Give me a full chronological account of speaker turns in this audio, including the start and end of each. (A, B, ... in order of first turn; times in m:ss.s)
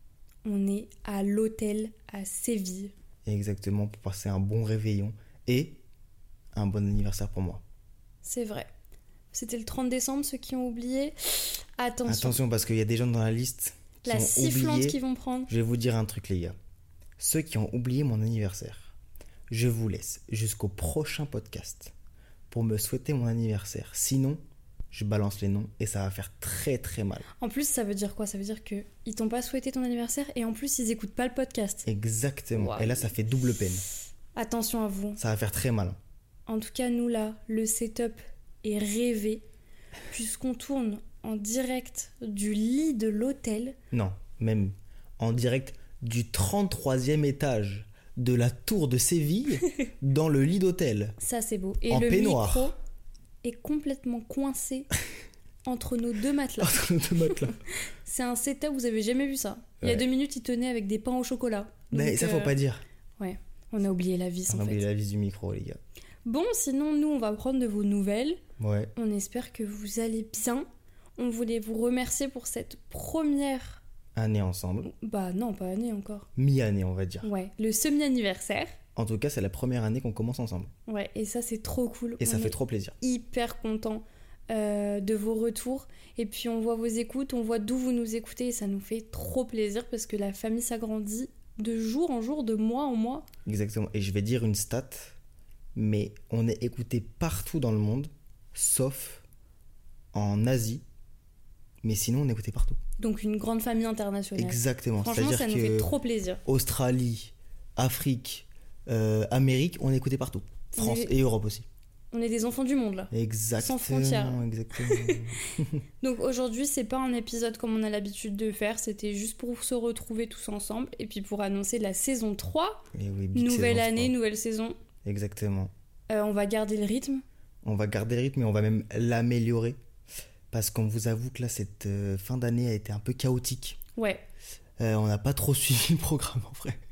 0:00.4-0:02.9 A
0:03.2-0:05.8 B
0:06.5-0:07.6 B
0:08.2-0:08.7 A
0:09.3-0:12.4 A
0:12.0-0:16.6 B
0:14.0-0:15.5 A
0:17.2-0:18.9 B
0:19.5-0:21.9 B
0:22.5-0:27.2 B
0:27.4-0:31.8 A
0:31.8-0:33.8 B
0:32.5-0:33.1 A
0:34.4-0:35.2 A
0:35.2-0:36.0 B
0:36.5-0:39.4 A
0:40.1-0:43.8 A
0:43.9-0:51.2 B
0:51.2-0:52.8 A
0:51.9-0:52.7 B
0:53.4-0:54.9 A
0:55.6-0:56.8 A
0:56.6-0:57.5 B
0:58.0-1:02.6 A
1:01.9-1:02.8 B
1:03.2-1:04.8 A
1:04.5-1:05.8 B
1:06.2-1:08.4 A
1:08.6-1:08.9 B
1:09.0-1:10.6 A
1:11.2-1:13.8 A
1:14.1-1:14.9 B
1:14.8-1:16.3 A
1:16.4-1:17.3 B
1:17.2-1:18.8 A
1:19.0-1:20.7 B
1:20.9-1:33.2 A
1:22.2-1:23.0 B
1:33.4-1:35.2 B
1:35.7-1:39.2 B
1:40.1-1:40.8 B
1:41.8-1:42.8 B
1:43.0-1:46.4 A
1:44.4-1:45.9 B
1:46.4-1:51.6 B
1:50.8-1:51.1 A
1:52.1-1:55.3 A
1:53.1-1:55.7 B
1:56.0-2:04.8 A
2:02.9-2:04.1 B
2:05.0-2:05.7 B
2:06.1-2:07.2 A
2:07.6-2:09.8 B
2:10.5-2:13.8 B
2:14.0-2:14.2 A
2:14.8-2:16.8 B